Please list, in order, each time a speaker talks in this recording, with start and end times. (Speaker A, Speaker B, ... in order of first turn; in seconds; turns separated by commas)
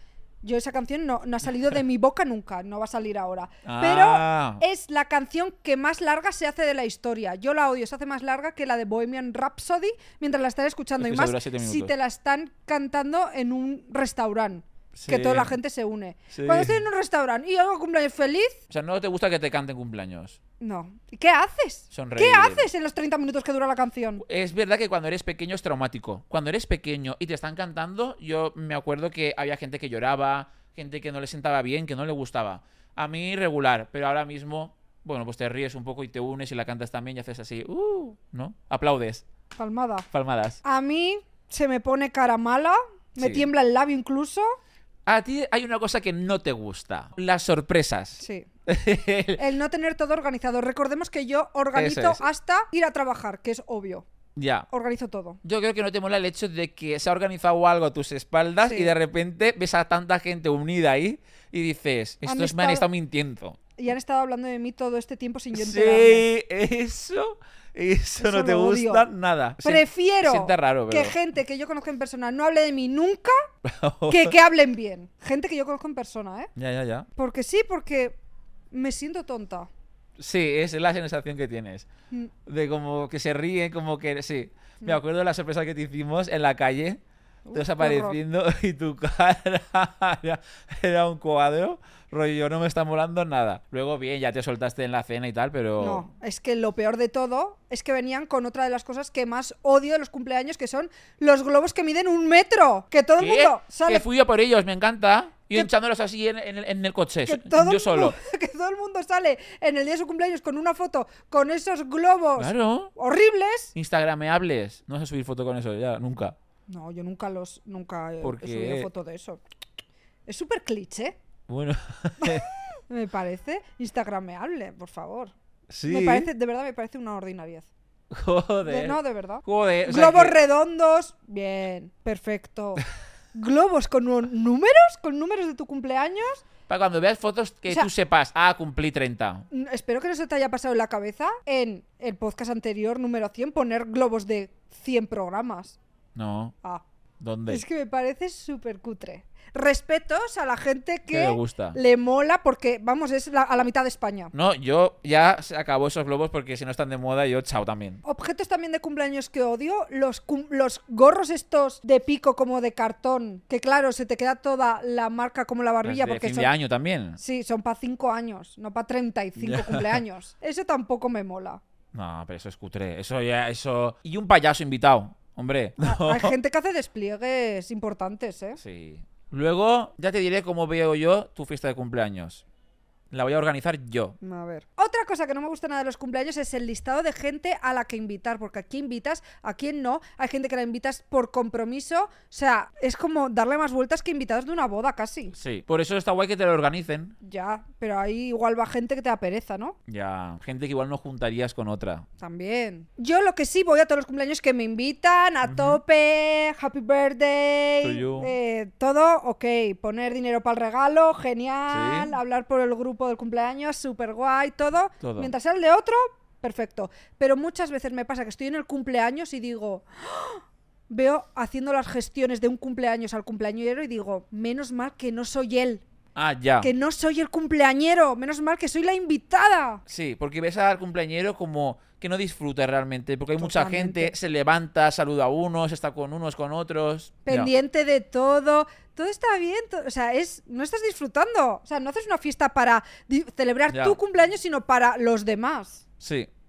Speaker A: 0.4-18.6, Speaker B: 3.6-4.6, Speaker B: 11.0-11.9, Speaker B: 14.9-15.5, Speaker B: 16.3-16.8, Speaker B: 18.7-20.4, Speaker A: 20.6-24.2, Speaker B: 21.9-22.7, Speaker B: 24.2-39.2, Speaker A: 39.6-40.1, Speaker B: 40.1-40.6, Speaker A: 40.6-44.6, Speaker B: 43.2-43.5, Speaker B: 45.1-49.4, Speaker A: 48.2-48.5, Speaker A: 49.4-54.1, Speaker B: 51.7-52.2, Speaker B: 54.4-54.7, Speaker A: 54.7-55.4, Speaker B: 55.4-63.6, Speaker A: 58.6-58.9, Speaker A: 62.2-62.9, Speaker A: 63.8-66.2, Speaker B: 65.5-71.2, Speaker A: 68.2-69.1, Speaker A: 69.6-73.5, Speaker B: 73.7-74.3, Speaker A: 74.1-76.5, Speaker B: 76.6-77.1, Speaker A: 77.2-78.2, Speaker A: 78.7-79.7, Speaker B: 80.2-81.9, Speaker B: 82.5-87.0, Speaker A: 87.5-88.2, Speaker B: 87.5-96.1, Speaker A: 95.8-104.1, Speaker B: 103.2-108.2, Speaker A: 107.2-113.7, Speaker B: 112.4-112.9, Speaker B: 113.8-116.4, Speaker A: 116.7-119.4, Speaker B: 118.2-118.9, Speaker A: 120.3-121.2, Speaker B: 121.5-122.5, Speaker A: 122.2-125.3, Speaker B: 125.7-126.3, Speaker A: 125.9-127.7, Speaker B: 128.1-130.4, Speaker A: 128.7-136.4, Speaker B: 136.7-139.5, Speaker A: 139.5-145.8, Speaker B: 146.2-146.6, Speaker B: 147.2-147.6, Speaker A: 147.5-154.3, Speaker B: 151.1-151.8, Speaker B: 154.3-158.0, Speaker A: 158.0-166.5, Speaker B: 165.8-167.2, Speaker A: 167.2-171.6, Speaker B: 169.4-170.0, Speaker B: 171.9-176.3, Speaker A: 175.8-178.6, Speaker B: 178.6-182.4, Speaker B: 183.1-184.2, Speaker A: 184.2-195.3, Speaker B: 195.3-197.2, Speaker A: 197.2-199.8, Speaker B: 199.9-202.1, Speaker A: 202.2-225.8, Speaker B: 205.4-205.8, Speaker B: 207.8-208.3, Speaker B: 211.7-212.2, Speaker B: 215.0-215.3, Speaker B: 226.2-226.7, Speaker A: 226.6-229.8, Speaker B: 229.9-237.5, Speaker A: 233.4-234.1, Speaker A: 237.3-245.8, Speaker B: 243.7-244.0, Speaker B: 246.0-246.3